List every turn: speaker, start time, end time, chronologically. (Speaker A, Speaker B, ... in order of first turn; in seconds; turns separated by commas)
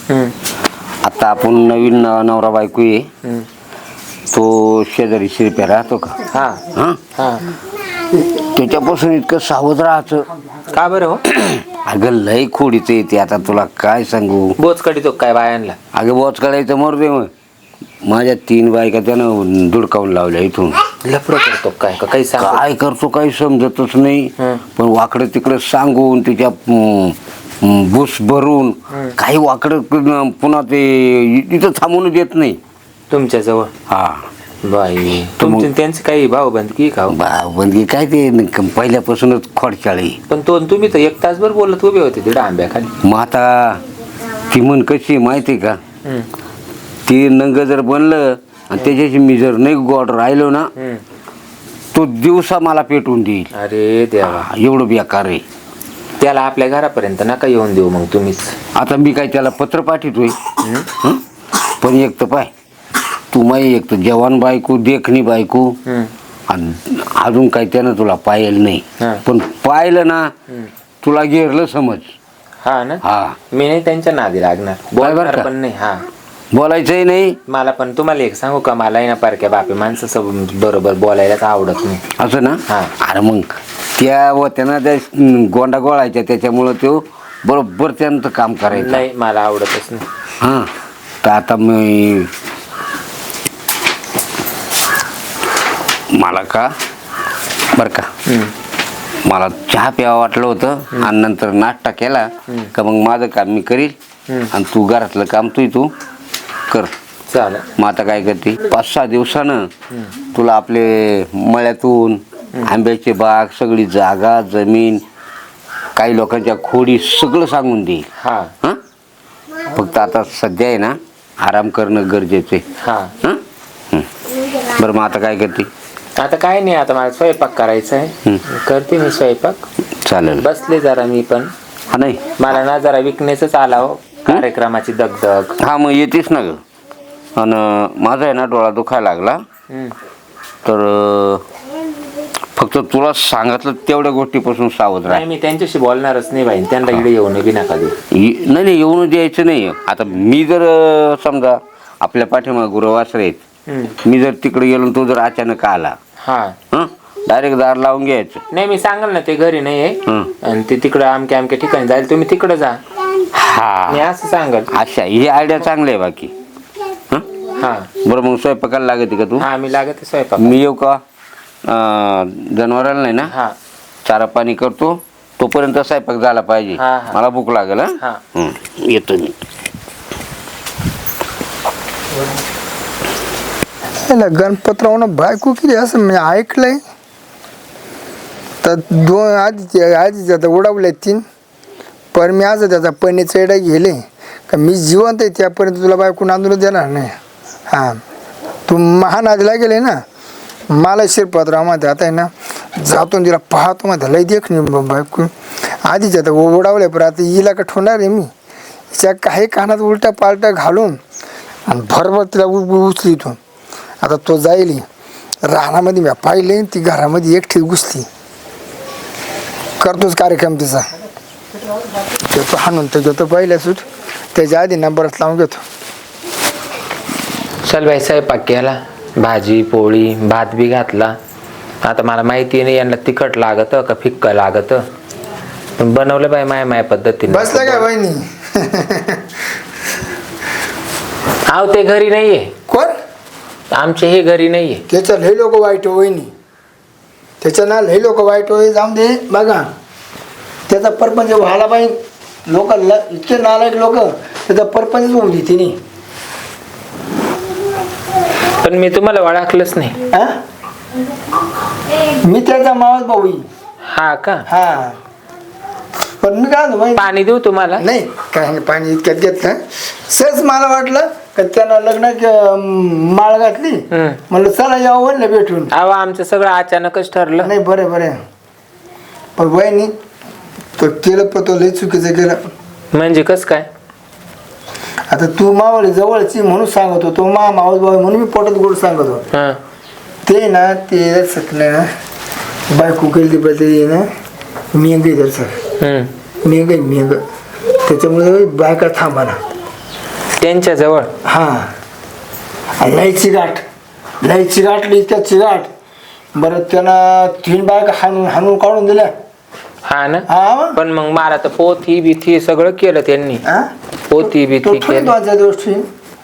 Speaker A: 0.1-0.3, Speaker B: 1.0-3.1, Speaker B: 4.3-6.2, Speaker A: 6.3-6.6, Speaker B: 6.7-7.0, Speaker A: 7.2-7.4, Speaker B: 8.4-10.3, Speaker A: 10.7-11.2, Speaker B: 11.3-14.5, Speaker A: 14.6-15.8, Speaker B: 15.9-17.3, Speaker B: 18.0-20.8, Speaker A: 21.0-22.6, Speaker B: 22.4-32.6, Speaker A: 33.1-33.7, Speaker B: 33.9-34.2, Speaker A: 34.6-37.2, Speaker B: 35.4-35.7, Speaker B: 37.1-40.2, Speaker A: 40.3-43.0, Speaker B: 43.0-43.8, Speaker B: 44.5-45.8, Speaker B: 47.0-50.7, Speaker A: 50.8-51.0, Speaker B: 51.9-53.5, Speaker A: 53.5-54.5, Speaker B: 54.2-55.4, Speaker A: 56.2-58.5, Speaker B: 58.7-60.4, Speaker A: 60.6-60.9, Speaker B: 61.8-62.5, Speaker B: 63.3-65.8, Speaker A: 65.9-66.1, Speaker B: 66.5-70.3, Speaker B: 71.0-72.1, Speaker A: 72.6-76.0, Speaker B: 73.0-73.4, Speaker B: 75.0-75.5, Speaker B: 76.5-77.4, Speaker A: 77.5-82.1, Speaker B: 82.2-89.0, Speaker A: 88.7-90.1, Speaker B: 90.4-90.7, Speaker B: 91.2-92.3, Speaker B: 96.2-96.7, Speaker B: 97.7-98.1, Speaker A: 98.3-98.5, Speaker B: 99.2-103.9, Speaker B: 104.5-105.9, Speaker A: 107.3-107.7, Speaker B: 107.8-109.7, Speaker B: 110.3-115.0, Speaker B: 116.0-118.1, Speaker A: 118.2-118.5, Speaker B: 119.7-122.6, Speaker A: 122.8-123.1, Speaker B: 124.7-125.7, Speaker A: 126.2-129.6, Speaker B: 130.0-130.4, Speaker A: 130.4-131.5, Speaker B: 131.9-132.4, Speaker A: 132.4-135.6, Speaker B: 135.6-136.6, Speaker B: 137.4-139.4, Speaker B: 140.7-141.4, Speaker B: 142.6-145.2, Speaker A: 145.1-147.9, Speaker B: 148.1-153.4, Speaker A: 153.7-153.9, Speaker B: 154.0-156.0, Speaker A: 156.2-156.6, Speaker B: 156.7-158.4, Speaker A: 158.5-162.8, Speaker B: 163.3-164.0, Speaker A: 163.9-164.7, Speaker B: 164.7-166.3, Speaker A: 167.6-167.9, Speaker B: 168.0-169.5, Speaker A: 169.4-170.6, Speaker B: 170.4-171.0, Speaker B: 171.7-173.3, Speaker A: 173.3-173.5, Speaker B: 174.1-179.3, Speaker A: 176.8-177.2, Speaker C: 184.1-186.8, Speaker C: 188.6-191.2, Speaker C: 192.1-197.1, Speaker C: 197.7-198.0, Speaker C: 198.7-200.0, Speaker C: 200.7-205.3, Speaker C: 205.8-208.3, Speaker C: 208.9-211.0, Speaker C: 211.7-213.4, Speaker C: 214.0-214.8, Speaker C: 215.4-218.1, Speaker C: 219.8-220.9, Speaker C: 222.2-223.8, Speaker C: 224.3-225.6, Speaker A: 227.7-231.2, Speaker A: 231.8-234.8, Speaker A: 235.8-237.9, Speaker C: 237.3-239.2, Speaker A: 241.5-242.5, Speaker A: 243.7-244.8, Speaker C: 244.9-246.3, Speaker C: 247.4-249.7, Speaker C: 250.7-251.9, Speaker C: 252.5-255.8, Speaker A: 258.6-259.9, Speaker C: 260.1-260.4, Speaker C: 262.2-263.4, Speaker A: 263.9-264.4, Speaker C: 264.5-264.9, Speaker C: 266.2-267.1, Speaker A: 266.9-267.8, Speaker C: 267.8-269.6, Speaker C: 270.1-275.7, Speaker A: 273.9-274.2, Speaker A: 275.7-277.5, Speaker C: 277.4-278.2, Speaker C: 279.4-279.9, Speaker C: 280.8-282.4, Speaker A: 282.9-283.7, Speaker C: 285.1-289.2, Speaker C: 290.2-291.9, Speaker C: 292.7-294.0, Speaker C: 294.7-295.6, Speaker A: 295.8-296.1, Speaker C: 296.4-297.2, Speaker C: 297.8-299.4, Speaker A: 300.4-301.1, Speaker C: 301.2-301.7, Speaker C: 302.8-303.6, Speaker C: 304.2-305.7, Speaker C: 306.4-309.1, Speaker A: 309.9-313.4, Speaker C: 310.3-310.8, Speaker C: 313.4-315.8, Speaker A: 314.1-315.1